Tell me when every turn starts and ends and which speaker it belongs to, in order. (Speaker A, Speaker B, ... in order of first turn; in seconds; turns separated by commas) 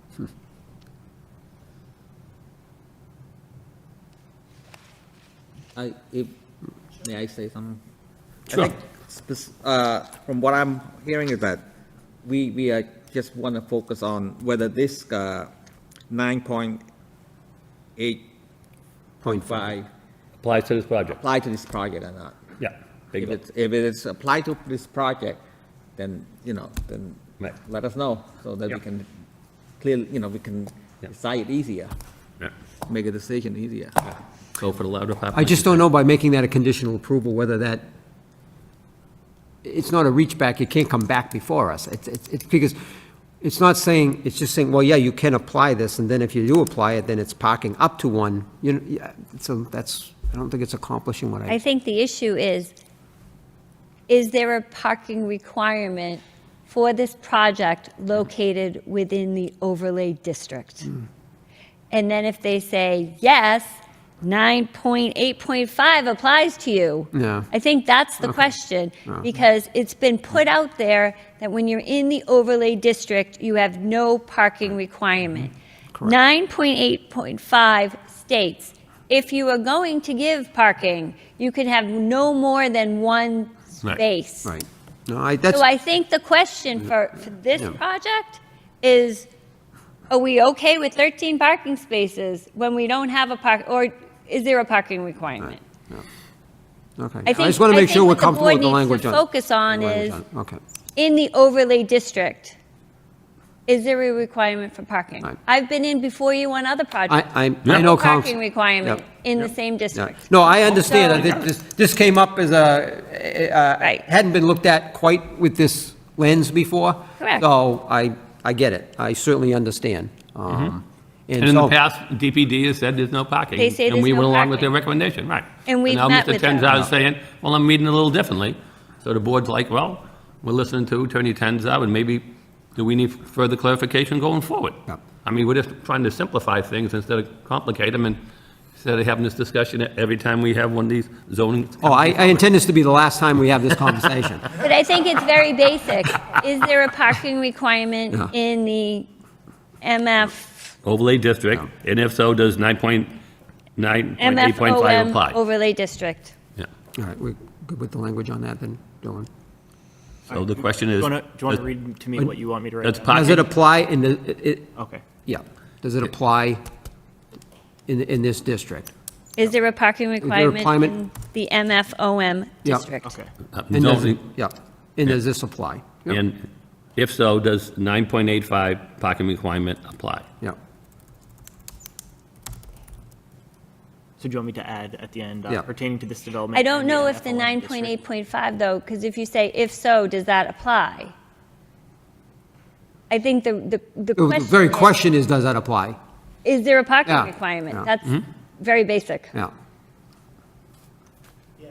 Speaker A: 5.8-6.3, Speaker A: 7.0-7.8, Speaker A: 8.5-11.6, Speaker A: 12.2-15.5, Speaker A: 16.1-16.8, Speaker A: 18.0-18.3, Speaker B: 19.2-19.7, Speaker A: 19.4-19.9, Speaker C: 20.4-21.2, Speaker A: 21.1-22.4, Speaker C: 22.6-23.3, Speaker A: 23.1-25.4, Speaker A: 26.0-29.1, Speaker A: 29.8-31.9, Speaker A: 32.9-34.0, Speaker C: 34.1-35.8, Speaker B: 35.3-37.8, Speaker B: 39.6-42.8, Speaker B: 43.4-51.6, Speaker D: 51.5-52.7, Speaker D: 54.1-60.9, Speaker D: 61.9-75.5, Speaker B: 67.1-67.5, Speaker D: 76.0-84.5, Speaker B: 84.4-85.6, Speaker D: 85.5-89.3, Speaker D: 90.1-95.6, Speaker B: 95.4-96.0, Speaker B: 97.0-100.6, Speaker D: 97.2-100.2, Speaker D: 101.0-102.5, Speaker D: 103.7-111.4, Speaker B: 107.1-109.0, Speaker B: 109.9-121.7, Speaker D: 117.2-117.5, Speaker C: 121.4-138.2, Speaker D: 123.6-124.7, Speaker D: 125.7-126.7, Speaker C: 138.8-142.4, Speaker B: 141.8-144.5, Speaker D: 144.5-149.1, Speaker D: 149.8-150.7, Speaker C: 150.8-153.1, Speaker C: 153.8-155.4, Speaker D: 154.2-156.3, Speaker B: 156.9-159.3, Speaker E: 160.3-163.5, Speaker C: 160.3-161.6, Speaker C: 162.8-163.4, Speaker B: 163.1-166.6, Speaker E: 164.8-165.0, Speaker B: 167.9-168.9, Speaker D: 169.4-173.1, Speaker B: 170.2-171.0, Speaker B: 172.6-172.9, Speaker E: 173.0-173.3, Speaker C: 173.5-174.2, Speaker B: 173.7-176.2, Speaker C: 176.1-176.4, Speaker C: 176.9-180.3, Speaker E: 184.2-188.0, Speaker D: 186.5-191.1, Speaker D: 193.1-195.0, Speaker B: 194.2-196.0, Speaker D: 196.4-199.3, Speaker B: 197.1-197.9